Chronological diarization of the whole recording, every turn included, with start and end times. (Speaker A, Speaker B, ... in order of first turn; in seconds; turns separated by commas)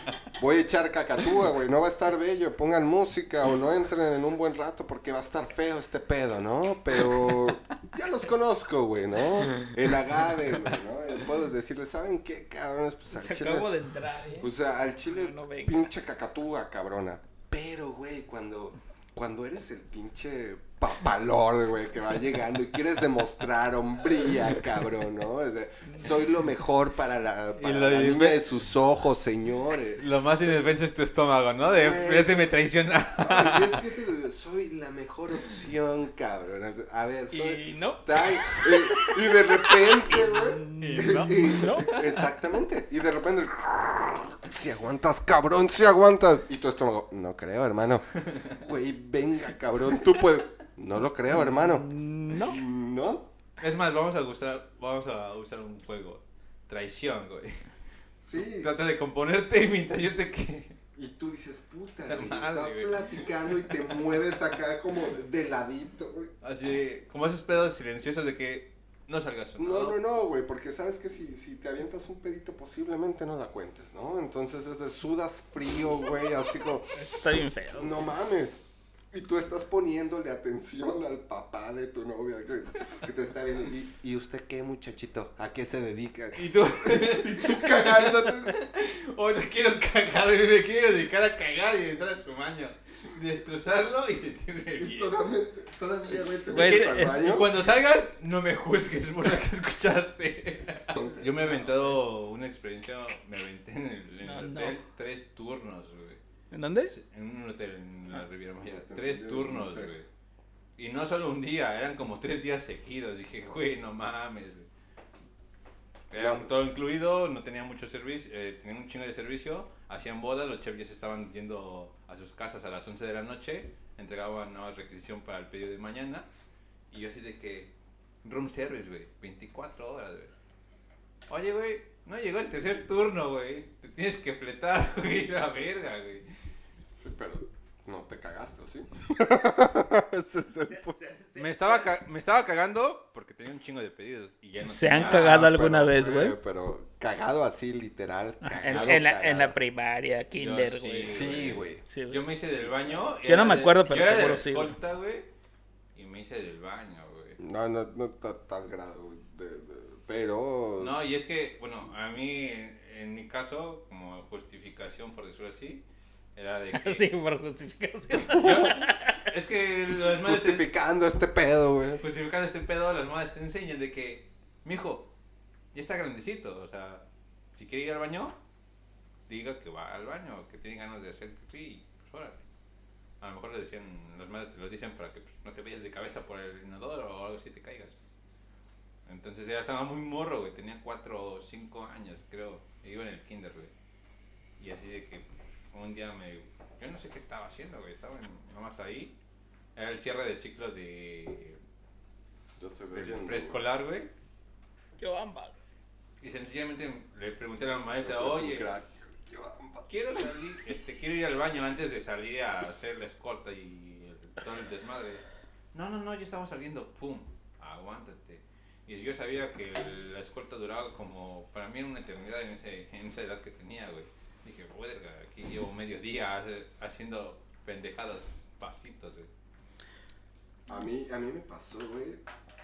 Speaker A: 0.3-13.7, Speaker B: 9.5-9.8, Speaker C: 13.1-14.5, Speaker A: 14.4-30.0, Speaker C: 15.0-15.9, Speaker C: 25.8-26.1, Speaker B: 27.6-28.4, Speaker B: 30.0-33.8, Speaker A: 31.6-32.5, Speaker A: 33.2-53.3, Speaker C: 37.3-38.7, Speaker C: 40.1-41.9, Speaker B: 40.8-42.1, Speaker C: 51.3-52.6, Speaker B: 53.6-57.7, Speaker A: 58.2-58.7, Speaker B: 58.4-60.8, Speaker A: 61.0-66.3, Speaker B: 62.1-64.1, Speaker B: 66.4-70.0, Speaker A: 69.6-77.0, Speaker C: 77.0-78.2, Speaker A: 77.8-88.6, Speaker B: 86.3-95.2, Speaker A: 94.8-97.5, Speaker B: 96.5-106.2, Speaker C: 96.5-97.3, Speaker A: 101.0-101.3, Speaker C: 101.0-102.0, Speaker C: 104.2-104.8, Speaker C: 106.5-106.9, Speaker B: 106.8-110.1, Speaker A: 108.6-110.0, Speaker B: 110.8-114.7, Speaker B: 116.1-126.3, Speaker A: 116.1-116.5, Speaker B: 126.9-130.3, Speaker B: 131.3-136.3, Speaker A: 136.9-141.0, Speaker C: 140.7-142.0, Speaker B: 141.3-145.4, Speaker C: 144.6-146.4, Speaker A: 144.9-149.6, Speaker C: 148.4-151.1, Speaker B: 148.7-149.0, Speaker B: 150.3-155.3, Speaker A: 151.0-151.8, Speaker C: 151.9-152.2, Speaker A: 152.4-153.2, Speaker C: 153.2-154.8, Speaker B: 155.9-157.4, Speaker A: 157.4-160.9, Speaker B: 160.8-167.1, Speaker C: 166.7-169.2, Speaker B: 168.2-170.7, Speaker A: 170.2-172.0, Speaker B: 172.0-175.1, Speaker B: 175.7-178.4, Speaker B: 179.3-182.4, Speaker B: 183.2-188.0, Speaker B: 189.1-193.7, Speaker B: 194.6-199.2, Speaker B: 199.8-201.6, Speaker A: 202.6-203.6, Speaker B: 202.9-204.1, Speaker C: 205.0-205.8, Speaker B: 206.2-208.7, Speaker A: 208.0-209.9, Speaker B: 209.9-215.2, Speaker B: 215.7-229.3, Speaker A: 230.7-232.2